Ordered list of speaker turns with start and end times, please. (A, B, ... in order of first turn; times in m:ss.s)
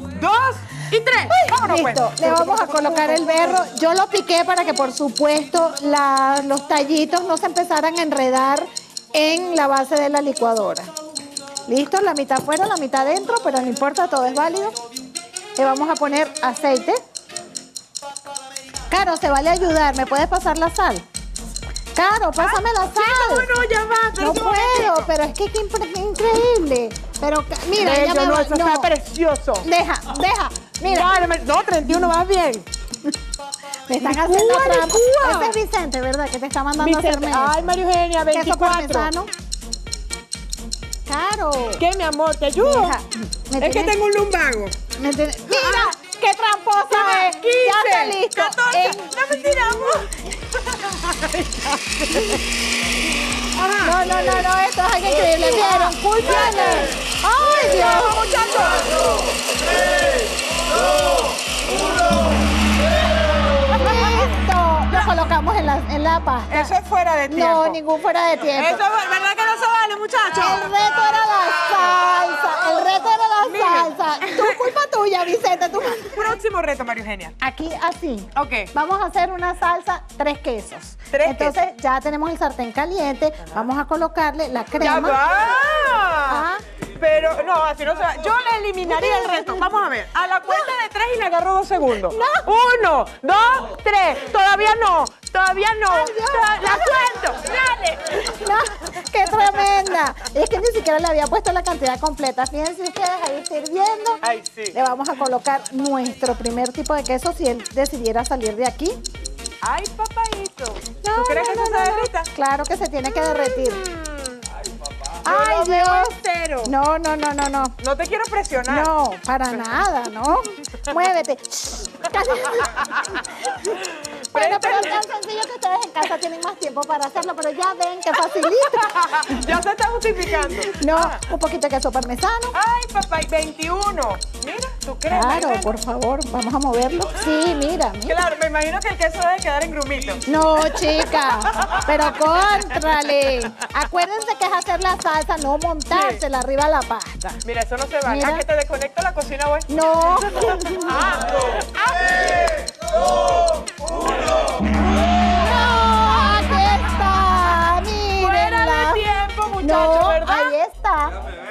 0:00.1-0:03.6 A
0:01.3-0:10.9 B
0:11.7-0:14.8 B
0:15.6-0:17.0 B
0:18.9-0:21.0 B
0:21.9-0:23.5 B
0:22.4-0:25.1 A
0:24.2-0:28.9 B
0:27.8-0:29.7 A
0:29.6-0:31.2 B
0:30.8-0:32.7 A
0:33.9-0:37.6 B
0:34.0-0:35.6 A
0:36.8-0:39.1 A
0:38.3-0:39.3 B
0:41.1-0:41.8 B
0:41.8-0:43.0 A
0:42.6-0:44.0 B
0:43.6-0:44.8 A
0:45.0-0:49.1 B
0:45.5-0:46.0 A
0:46.9-0:52.4 A
0:52.1-0:52.4 B
0:53.5-0:54.5 A
0:53.8-0:58.5 B
0:55.0-0:58.9 A
1:03.7-1:04.4 A
1:03.7-1:06.7 B
1:06.5-1:07.8 A
1:07.3-1:08.8 B
1:08.5-1:10.8 A
1:10.3-1:16.4 B
1:11.8-1:12.2 A
1:13.4-1:14.7 A
1:16.0-1:17.3 A
1:17.4-1:25.2 B
1:18.4-1:18.7 A
1:21.1-1:21.6 A
1:24.8-1:38.2 A
1:26.3-1:26.6 B
1:28.8-1:29.7 B
1:32.1-1:32.5 B
1:35.9-1:37.2 B
1:38.1-1:49.0 B
1:39.3-1:39.6 A
1:44.2-1:44.8 A
1:49.6-1:52.3 A
1:51.0-1:53.8 B
1:53.0-1:54.4 A
1:55.2-1:57.8 B
1:55.3-1:56.8 A
1:57.8-1:58.9 A
1:58.7-2:03.8 B
2:02.9-2:03.2 A
2:03.7-2:05.1 A
2:04.3-2:09.4 B
2:08.4-2:11.2 A
2:10.6-2:12.6 B
2:12.5-2:15.7 A
2:15.1-2:18.2 B
2:18.1-2:20.2 A
2:20.3-2:27.4 B
2:25.9-2:26.2 A
2:27.4-2:32.4 A
2:28.1-2:28.4 B
2:29.7-2:31.1 B
2:35.3-2:39.0 B
2:38.2-2:40.5 A
2:39.6-2:41.1 B